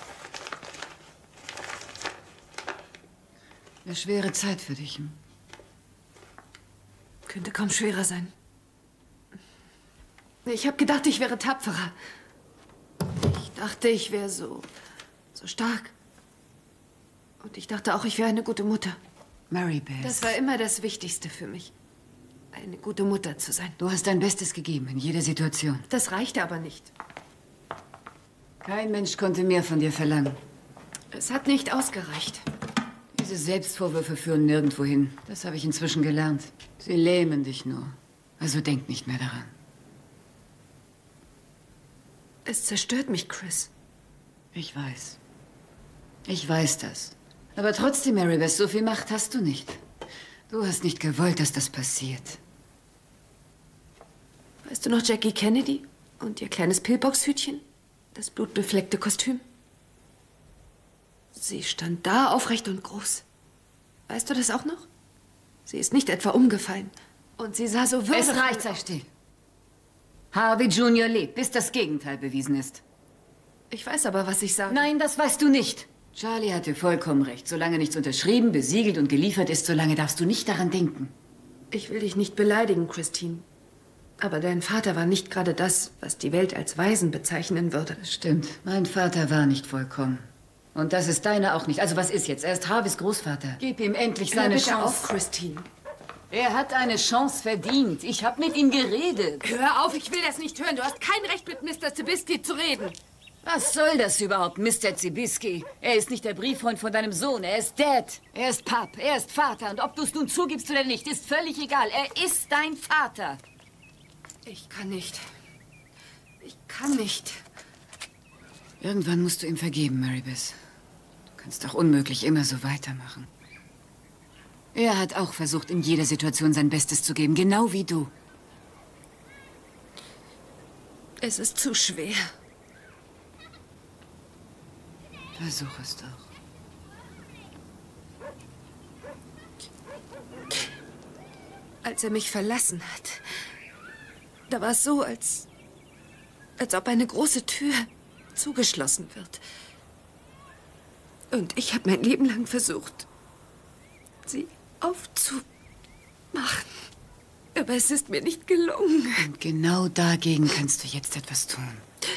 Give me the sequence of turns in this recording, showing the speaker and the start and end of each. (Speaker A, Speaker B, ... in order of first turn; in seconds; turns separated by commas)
Speaker A: 3.8-5.2, Speaker B: 7.3-8.3, Speaker B: 10.4-11.9, Speaker B: 13.1-14.7, Speaker B: 15.3-15.9, Speaker B: 17.4-19.0, Speaker A: 19.5-20.3, Speaker B: 20.0-21.7, Speaker B: 22.5-23.8, Speaker A: 23.8-25.8, Speaker B: 25.9-26.9, Speaker A: 28.6-30.4, Speaker B: 31.1-32.4, Speaker A: 33.1-39.5, Speaker B: 42.5-43.7, Speaker A: 44.5-45.2, Speaker A: 46.2-49.8, Speaker A: 50.5-52.4, Speaker B: 54.6-57.6, Speaker B: 58.1-59.4, Speaker B: 61.3-63.2, Speaker B: 64.1-64.9, Speaker B: 65.7-68.8, Speaker A: 68.1-69.1, Speaker A: 70.3-72.8, Speaker B: 73.7-74.9, Speaker A: 74.7-81.1, Speaker B: 81.7-83.4, Speaker B: 84.2-88.0, Speaker A: 88.0-95.0, Speaker B: 94.3-95.7, Speaker A: 96.3-99.4, Speaker B: 99.4-103.0, Speaker A: 103.4-113.4, Speaker B: 114.5-115.2, Speaker B: 116.4-117.4, Speaker A: 118.8-120.6, Speaker A: 121.3-123.3, Speaker A: 124.7-128.1, Speaker B: 131.2-132.3, Speaker A: 135.3-136.3, Speaker B: 141.8-143.2, Speaker B: 144.5-145.4, Speaker B: 146.6-149.4, Speaker B: 151.3-153.1, Speaker B: 154.2-155.4, Speaker B: 156.3-156.8, Speaker B: 157.5-159.2, Speaker A: 159.2-161.8